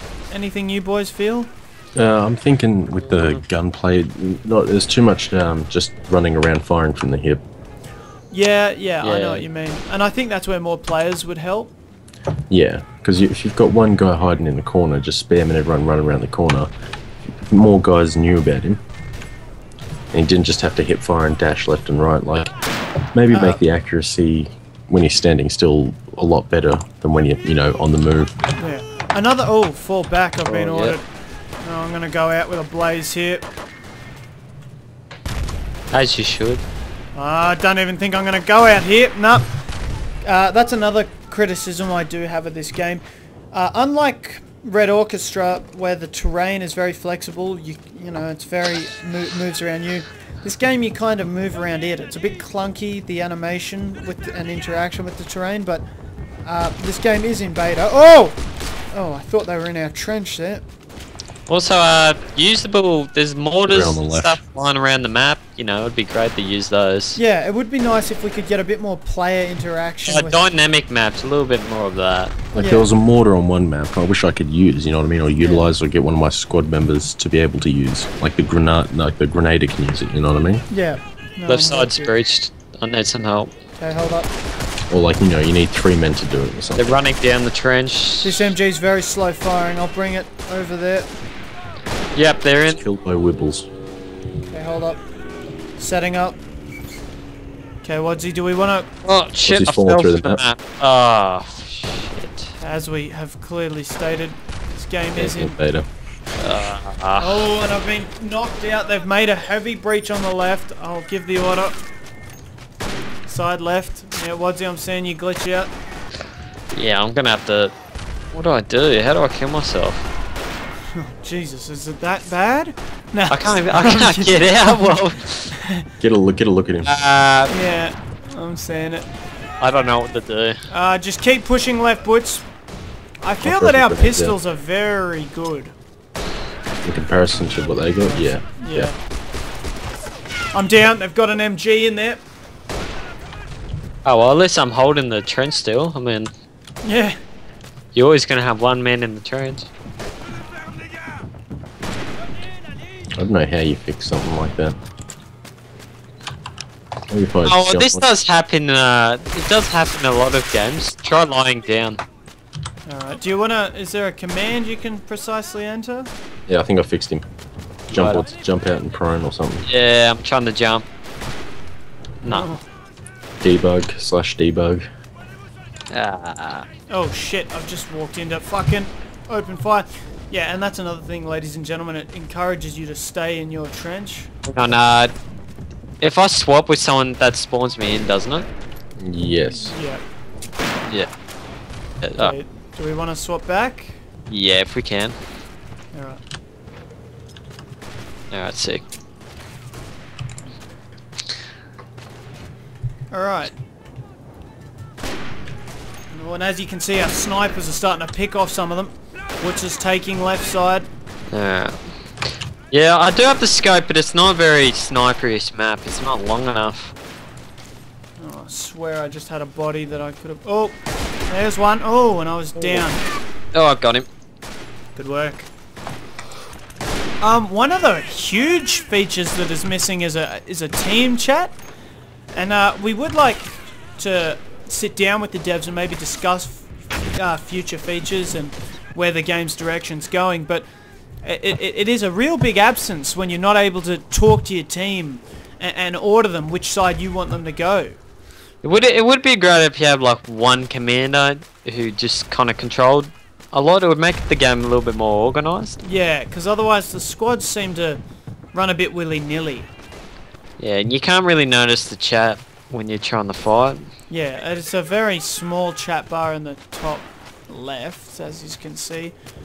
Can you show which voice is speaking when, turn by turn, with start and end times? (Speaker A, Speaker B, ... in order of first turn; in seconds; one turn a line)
Speaker A: 0.3-1.5
Speaker B: 1.9-7.4
Speaker A: 8.3-11.7
Speaker C: 9.0-9.4
Speaker B: 12.5-16.7
Speaker B: 17.2-18.8
Speaker B: 20.1-22.5
Speaker B: 23.1-28.3
Speaker A: 23.3-23.6
Speaker A: 28.6-31.0
Speaker C: 30.5-30.9
Speaker A: 31.6-33.5
Speaker C: 35.9-36.6
Speaker A: 37.1-39.5
Speaker A: 40.2-55.8
Speaker A: 56.4-58.4
Speaker A: 58.9-60.6
Speaker C: 61.5-67.2
Speaker B: 63.6-64.4
Speaker A: 67.2-70.5
Speaker C: 70.1-72.3
Speaker B: 72.5-80.6
Speaker A: 72.6-72.9
Speaker A: 75.4-75.7
Speaker A: 80.7-82.1
Speaker C: 81.5-83.5
Speaker A: 83.8-84.3
Speaker B: 84.9-87.0
Speaker C: 86.8-88.5
Speaker A: 88.2-91.1
Speaker C: 92.1-92.8
Speaker B: 92.7-93.7
Speaker A: 94.5-95.0
Speaker A: 95.8-96.4
Speaker A: 97.8-98.9
Speaker C: 99.0-102.5
Speaker B: 99.5-100.4
Speaker A: 102.6-105.5
Speaker B: 105.2-105.9
Speaker C: 106.4-107.5
Speaker A: 107.2-111.8
Speaker A: 113.3-115.7
Speaker C: 116.7-117.7
Speaker C: 118.3-120.1
Speaker A: 120.9-125.0
Speaker C: 123.3-125.5
Speaker A: 125.5-125.9
Speaker B: 126.0-126.9
Speaker C: 126.8-127.5
Speaker A: 127.5-129.1
Speaker C: 129.6-130.6
Speaker A: 130.7-132.4
Speaker A: 133.2-135.7
Speaker B: 133.4-134.4
Speaker B: 136.8-138.9
Speaker A: 138.0-138.9
Speaker A: 140.5-142.2
Speaker C: 144.0-146.3
Speaker A: 146.8-147.2
Speaker C: 147.9-149.7
Speaker B: 153.2-154.8
Speaker B: 157.1-158.0
Speaker C: 157.4-162.0
Speaker A: 162.9-166.1
Speaker B: 166.5-167.2
Speaker B: 167.9-169.7
Speaker C: 167.9-168.2
Speaker C: 169.7-170.8
Speaker C: 172.2-172.5
Speaker A: 172.2-172.6
Speaker B: 173.4-174.8
Speaker C: 175.9-176.7
Speaker A: 176.9-184.3
Speaker C: 184.4-185.1
Speaker C: 186.0-188.5
Speaker B: 189.0-189.7
Speaker A: 189.5-190.0
Speaker C: 192.0-192.3
Speaker A: 192.2-194.0
Speaker C: 194.3-195.2
Speaker A: 195.9-196.2
Speaker C: 198.3-198.8
Speaker A: 203.1-203.5
Speaker A: 206.1-210.9
Speaker C: 211.3-211.8
Speaker C: 212.7-216.9
Speaker A: 218.2-223.0
Speaker C: 223.5-224.1
Speaker A: 224.9-225.5
Speaker A: 227.2-231.6
Speaker A: 232.3-240.7
Speaker A: 241.2-248.0
Speaker C: 248.6-255.8
Speaker A: 255.8-258.0
Speaker A: 258.5-259.7
Speaker C: 260.6-263.9
Speaker A: 264.1-269.1